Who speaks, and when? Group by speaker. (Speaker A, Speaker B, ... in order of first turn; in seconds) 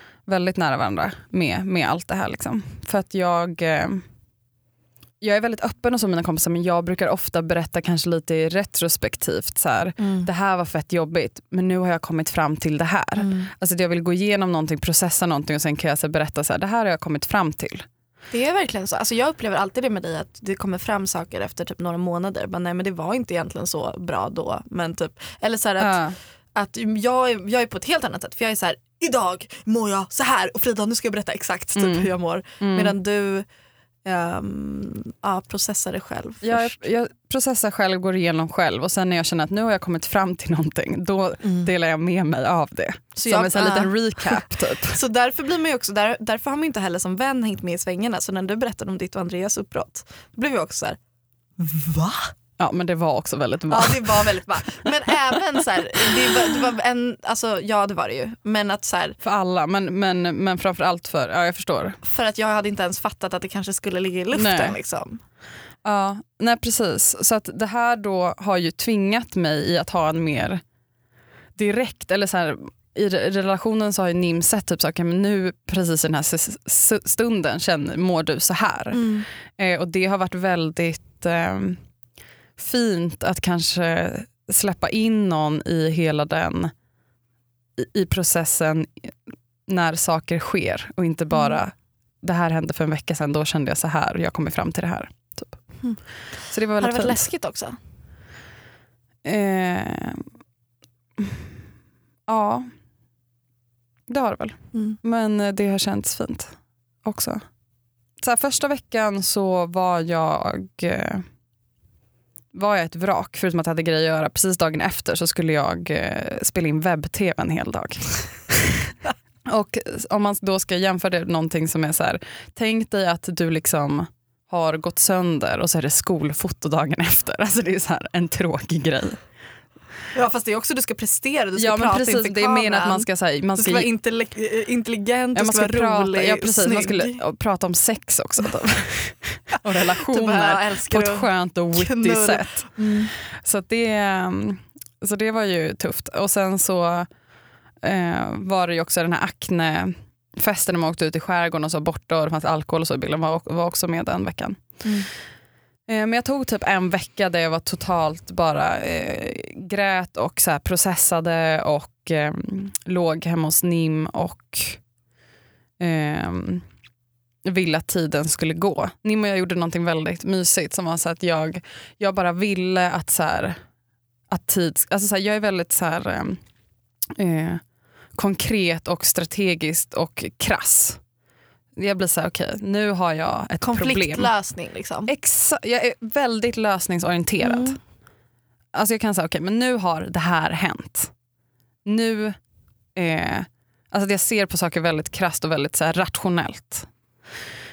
Speaker A: 0.3-4.0, 5.2-17.9, 25.8-26.2, 31.8-32.1, 32.6-32.9, 36.4-45.0, 52.6-54.4, 59.2-62.0, 64.3-64.8, 65.8-70.6, 71.5-81.8, 82.6-86.7, 87.8-89.1, 89.7-95.6, 96.5-97.2, 99.2-100.2, 101.2-101.4, 102.3-102.7, 104.1-107.4, 108.2-111.2, 112.5-118.9, 119.5-129.2, 131.6-133.9, 135.3-147.1, 147.8-154.8, 155.9-164.8, 165.8-166.6, 167.4-173.6, 174.3-176.4, 177.1-177.6, 178.1-181.0, 181.8-184.3, 185.1-187.8, 188.7-191.1, 191.8-192.4, 192.9-196.9
Speaker B: 10.0-10.3, 13.2-13.5, 18.3-26.0, 26.5-33.5, 34.0-36.8, 41.4-41.7, 43.1-51.0, 51.6-52.3, 53.7-59.2, 62.0-65.2, 78.9-79.3, 95.8-97.8, 104.7-105.0, 130.1-137.2, 139.5-143.1, 154.8-155.1, 183.6-185.1, 187.4-187.8